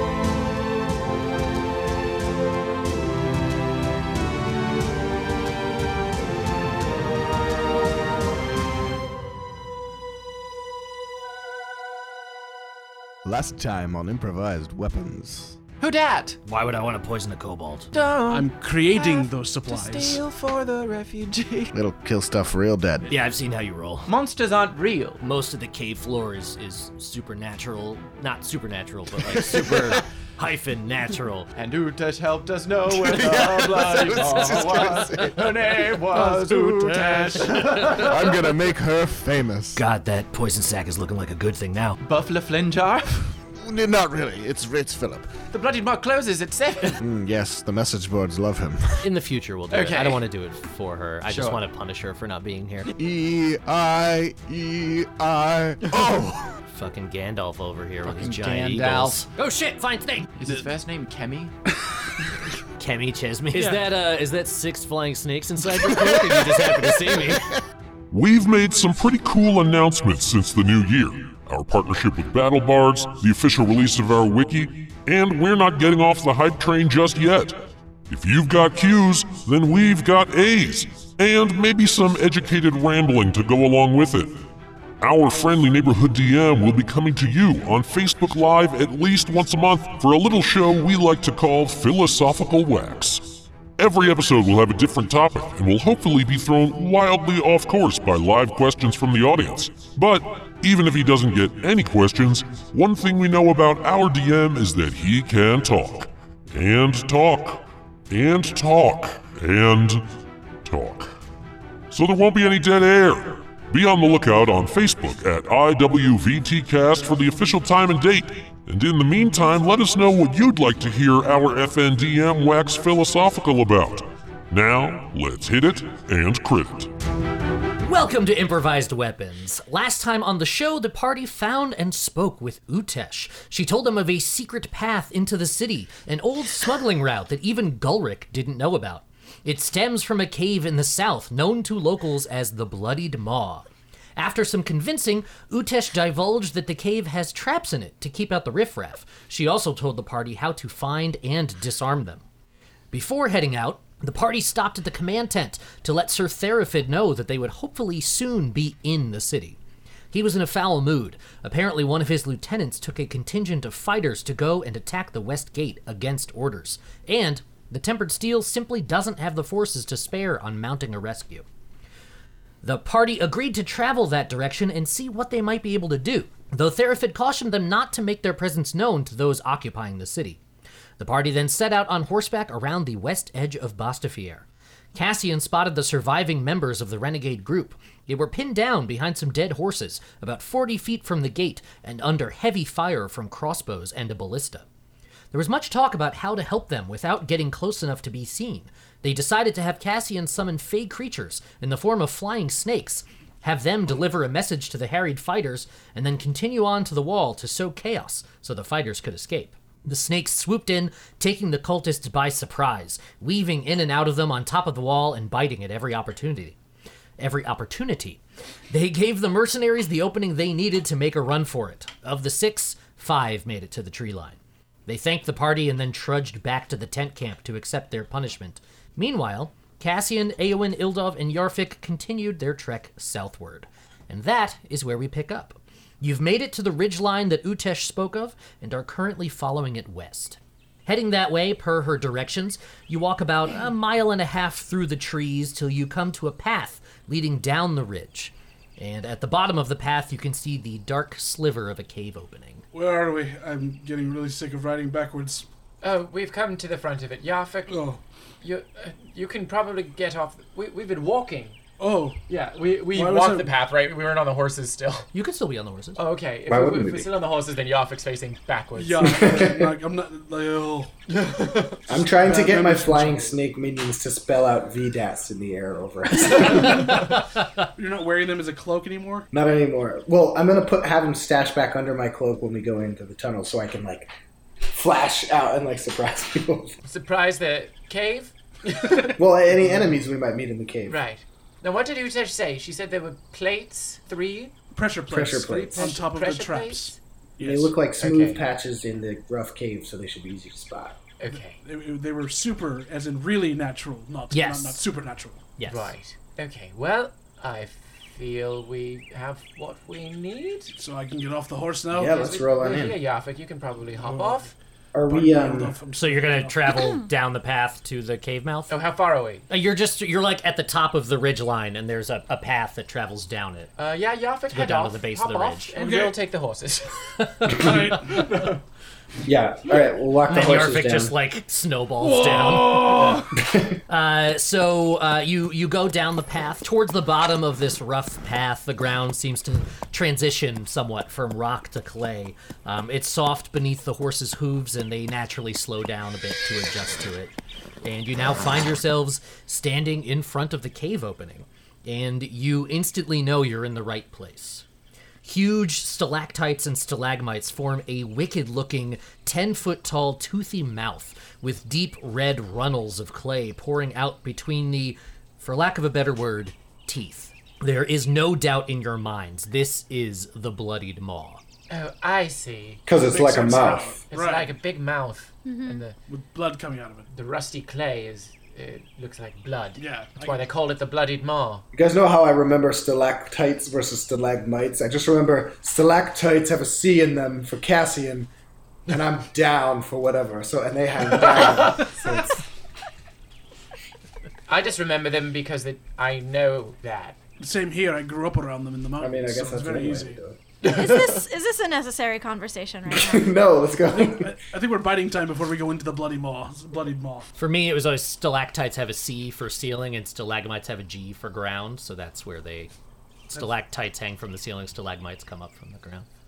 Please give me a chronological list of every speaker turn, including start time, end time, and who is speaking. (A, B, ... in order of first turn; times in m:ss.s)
0:13.2-0:15.6 A
0:15.8-0:16.4 B
0:16.4-0:17.9 C
0:17.9-0:21.7 B
0:18.3-0:20.2 D
0:21.8-0:23.1 A
0:23.0-0:24.1 C
0:24.1-0:25.2 B
0:25.2-0:31.5 C
0:29.3-0:30.0 A
0:31.6-0:38.4 B
0:32.9-0:35.9 A
0:34.5-0:34.8 C
0:36.1-0:37.6 D
0:36.6-0:39.8 A
0:39.8-0:42.0 C
0:42.0-0:43.4 B
0:43.6-0:45.3 A
0:45.5-0:47.0 E
0:47.0-0:49.1 A
0:49.0-0:52.9 C
0:49.7-0:50.2 E
0:51.3-0:51.6 B
0:53.0-0:56.6 A
0:56.7-1:00.7 C
0:58.0-0:59.3 B
1:00.4-1:01.6 B
1:02.8-1:07.5 C
1:03.5-1:03.8 D
1:08.1-1:24.4 F
1:25.0-1:50.1 F
1:50.6-1:51.1 F
1:51.9-2:06.9 F
2:07.8-2:32.2 C
2:32.9-2:39.6 C
2:40.1-2:51.4 C
2:52.6-3:00.4 C
3:01.0-3:14.7 C
3:15.3-3:36.6 C
3:37.2-4:12.6 C
4:12.7-4:15.5 D
4:15.8-4:17.8 E
4:17.7-4:18.0 D
4:18.4-4:21.6 E
4:21.8-4:22.2 D
4:22.3-4:25.1 E
4:22.9-4:23.5 D
4:25.1-4:26.0 C
4:26.0-4:29.4 E
4:26.5-4:27.1 G
4:28.8-4:33.3 D
4:29.0-4:29.8 G
4:31.9-4:37.1 G
4:36.3-4:39.3 D
4:39.3-4:46.8 G
4:46.8-4:49.2 E
4:49.0-4:51.0 G
4:49.6-4:49.9 D
4:50.9-4:54.5 E
4:54.8-4:57.7 D
4:55.1-4:55.9 G
4:55.7-4:57.0 E
4:57.4-5:01.0 G
4:58.0-4:58.4 E
5:01.2-5:01.6 E
5:01.3-5:05.4 D
5:04.3-5:04.8 C
5:05.6-5:05.9 C
5:05.7-5:10.7 E
5:10.8-5:12.3 D
5:11.9-5:13.0 G
5:12.2-5:14.5 E
5:13.9-5:14.5 D
5:14.9-5:15.8 G
5:15.1-5:16.8 D
5:15.9-5:18.8 C
5:18.7-5:19.5 E
5:19.5-5:23.7 C
5:23.8-5:26.9 E
5:24.5-5:25.8 C
5:25.8-5:26.2 D
5:27.2-5:28.2 C
5:27.5-5:28.6 D
5:29.2-5:31.2 G
5:30.3-5:33.2 C
5:32.0-5:33.3 D
5:33.4-5:33.8 G
5:33.9-5:47.3 C
5:47.8-5:54.6 C
5:55.2-6:11.4 C
6:11.7-6:12.8 E
6:12.9-6:14.0 G
6:12.9-6:14.5 D
6:14.1-6:16.0 E
6:15.4-6:15.9 H
6:16.1-6:17.1 D
6:17.1-6:21.6 E
6:19.8-6:20.4 D
6:21.7-6:28.3 G
6:28.9-6:32.4 G
6:31.2-6:32.2 E
6:34.5-6:37.2 E
6:37.4-6:40.2 D
6:39.0-6:40.8 G
6:40.6-6:43.4 H
6:42.9-6:44.3 G
6:43.9-6:47.3 D
6:47.4-6:52.7 C
6:53.3-6:56.1 C